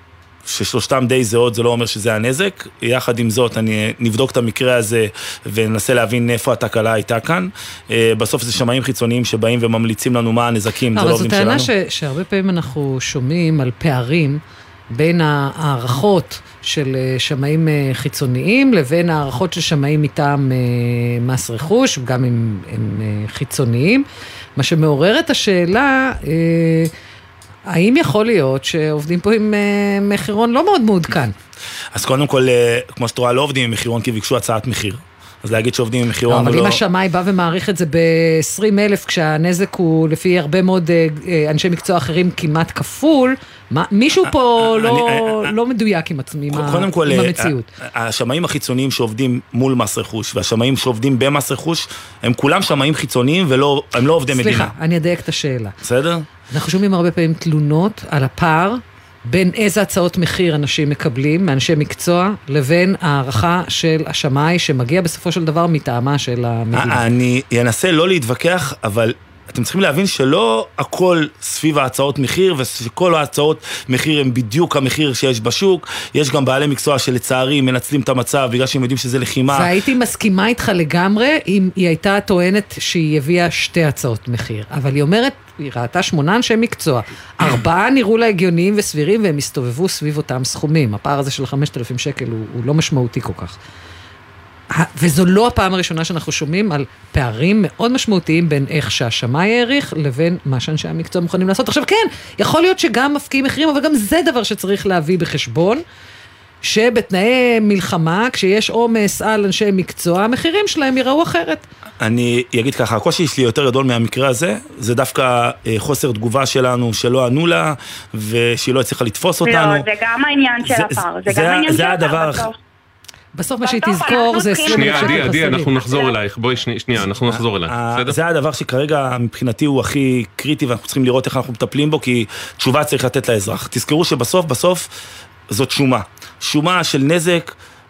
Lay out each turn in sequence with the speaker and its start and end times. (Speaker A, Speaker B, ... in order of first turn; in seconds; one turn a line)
Speaker A: 0.5-11.7
Speaker B: 10.9-14.4
Speaker B: 14.9-24.0
Speaker B: 24.6-26.9
Speaker B: 27.7-31.3
Speaker A: 31.9-36.8
Speaker B: 36.3-47.7
Speaker A: 44.6-45.5
Speaker A: 46.5-54.7
Speaker B: 54.3-55.8
Speaker A: 55.8-56.3
Speaker B: 56.5-67.0
Speaker A: 66.7-79.7
Speaker B: 79.5-93.6
Speaker B: 94.7-105.8
Speaker B: 106.6-111.6
Speaker A: 112.0-119.9
Speaker C: 119.4-122.6
Speaker A: 120.6-122.5
Speaker B: 123.4-125.7
Speaker C: 123.6-126.1
Speaker D: 124.7-128.2
Speaker A: 127.0-134.9
Speaker A: 135.5-137.6